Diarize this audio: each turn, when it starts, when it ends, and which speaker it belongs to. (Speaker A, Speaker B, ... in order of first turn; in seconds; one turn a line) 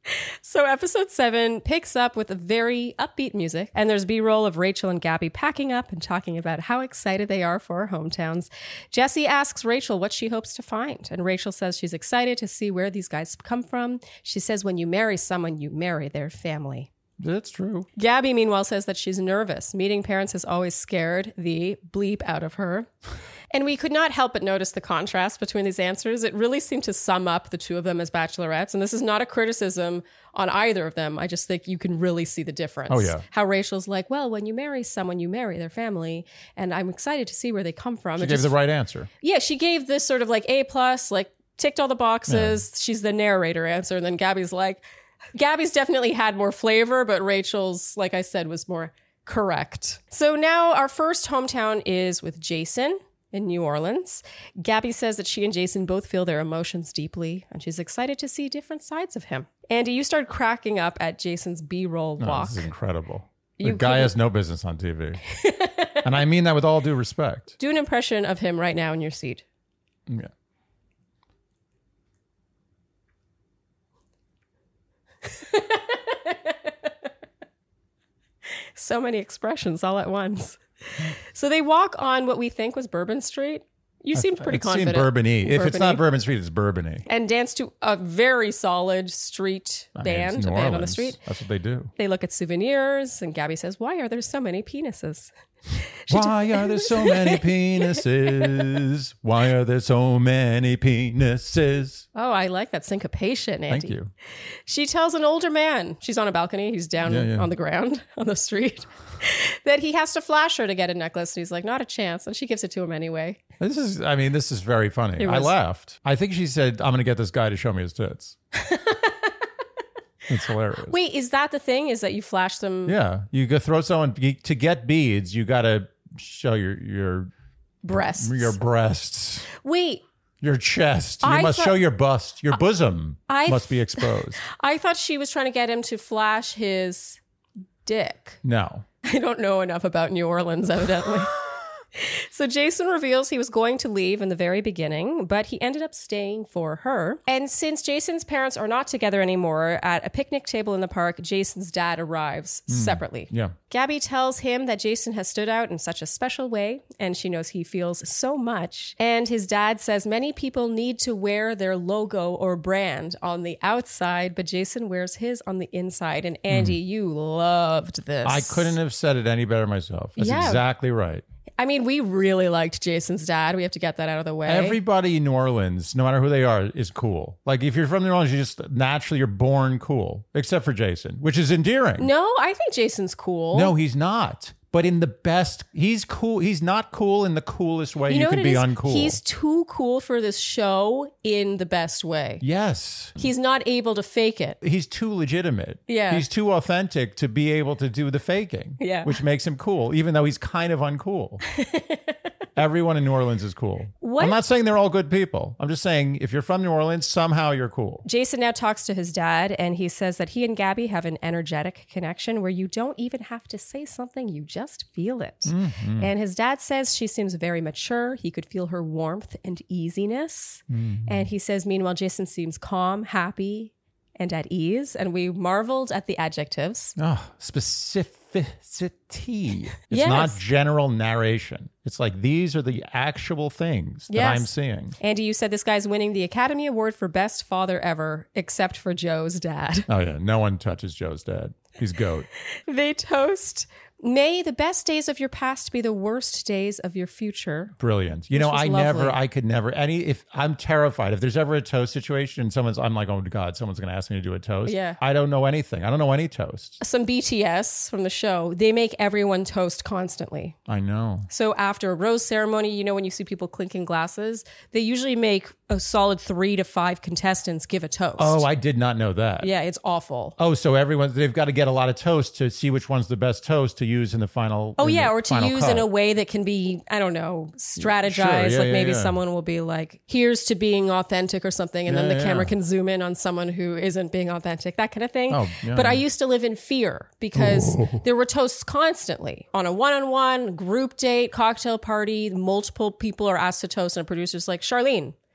Speaker A: 0.1-16.9
Speaker B: 17.2-17.9
Speaker A: 17.9-22.9
Speaker A: 23.5-38.6
Speaker B: 32.9-33.2
Speaker B: 38.2-39.1
Speaker A: 39.2-44.8
Speaker B: 42.3-42.6
Speaker A: 45.3-62.7
Speaker B: 62.2-65.2
Speaker A: 63.6-64.1
Speaker A: 65.3-66.0
Speaker B: 66.0-67.5
Speaker A: 67.6-69.4
Speaker A: 75.2-76.5
Speaker A: 78.8-86.0
Speaker B: 84.1-87.0
Speaker A: 87.0-91.2
Speaker B: 90.0-91.9
Speaker A: 92.0-98.5
Speaker B: 96.1-102.0
Speaker A: 102.1-104.0
Speaker B: 103.7-104.1
Speaker A: 104.7-113.4
Speaker B: 107.0-107.5
Speaker B: 113.6-118.3
Speaker A: 115.2-115.5
Speaker A: 118.5-119.3
Speaker B: 120.3-121.0
Speaker A: 120.8-122.9
Speaker B: 122.8-127.3
Speaker A: 127.8-128.6
Speaker B: 127.9-129.5
Speaker A: 129.5-130.0
Speaker B: 130.4-134.4
Speaker A: 131.2-131.8
Speaker A: 133.3-137.2
Speaker A: 137.8-138.4
Speaker B: 138.4-138.8
Speaker A: 139.0-141.3
Speaker A: 141.9-168.8
Speaker B: 152.7-153.5
Speaker B: 166.5-166.8
Speaker B: 168.2-171.2
Speaker A: 170.2-170.6
Speaker A: 171.6-174.8
Speaker B: 174.4-182.1
Speaker A: 182.0-183.7
Speaker B: 183.5-189.2
Speaker A: 188.1-192.4
Speaker B: 192.4-193.2
Speaker A: 193.2-194.6
Speaker B: 194.6-201.4
Speaker A: 195.9-196.2
Speaker A: 198.8-199.2
Speaker A: 201.5-202.1
Speaker B: 202.6-208.0
Speaker A: 204.0-204.4
Speaker A: 208.0-226.9
Speaker B: 215.4-216.1
Speaker B: 220.7-221.2
Speaker B: 227.0-234.9
Speaker A: 229.9-230.4
Speaker A: 234.1-239.9
Speaker B: 239.9-242.3
Speaker A: 242.4-247.8
Speaker B: 247.8-256.8
Speaker A: 248.3-249.2
Speaker A: 254.7-255.0
Speaker A: 256.8-260.6
Speaker B: 260.7-261.3
Speaker A: 261.3-268.4
Speaker B: 268.2-269.5
Speaker A: 269.4-270.4
Speaker B: 270.4-275.9
Speaker A: 274.8-295.1
Speaker B: 277.8-279.2
Speaker B: 281.9-282.5
Speaker B: 285.3-286.0
Speaker B: 287.3-288.0